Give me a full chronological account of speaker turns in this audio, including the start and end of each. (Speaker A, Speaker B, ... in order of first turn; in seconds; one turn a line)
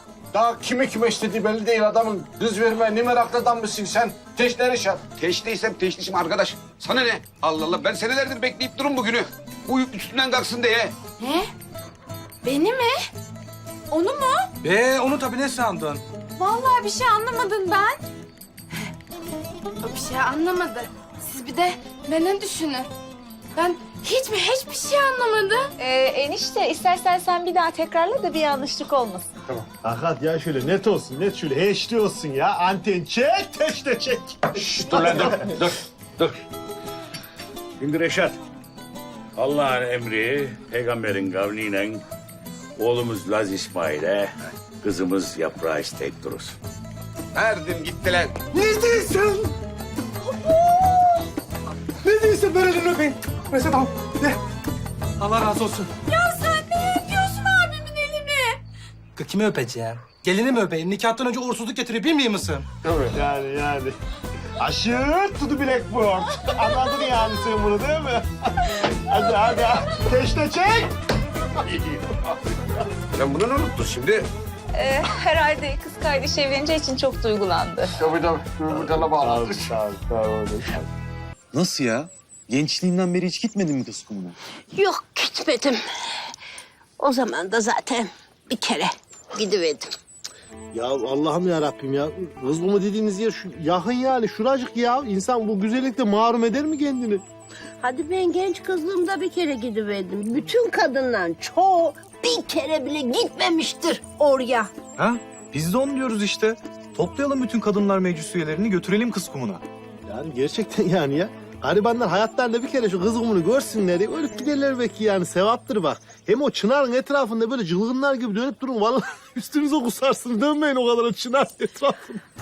Speaker A: 0.3-5.0
Speaker B: 5.2-10.9
Speaker C: 12.4-12.9
Speaker C: 13.9-14.5
Speaker D: 14.6-16.0
Speaker C: 16.4-18.0
Speaker C: 19.8-22.9
Speaker C: 23.6-25.6
Speaker E: 25.8-29.3
Speaker F: 29.8-34.6
Speaker G: 34.6-36.4
Speaker A: 34.9-35.4
Speaker G: 37.8-38.4
Speaker G: 39.4-42.0
Speaker G: 42.8-46.6
Speaker B: 47.3-48.3
Speaker D: 48.5-49.5
Speaker D: 52.0-54.4
Speaker D: 55.2-55.9
Speaker D: 59.1-62.6
Speaker F: 63.1-64.0
Speaker F: 64.6-70.9
Speaker B: 73.1-74.3
Speaker E: 74.7-77.9
Speaker A: 78.0-79.7
Speaker F: 78.7-80.9
Speaker H: 81.5-84.4
Speaker I: 84.7-85.8
Speaker I: 87.0-90.0
Speaker F: 90.7-97.2
Speaker I: 97.8-104.7
Speaker H: 105.0-109.6
Speaker F: 110.0-122.2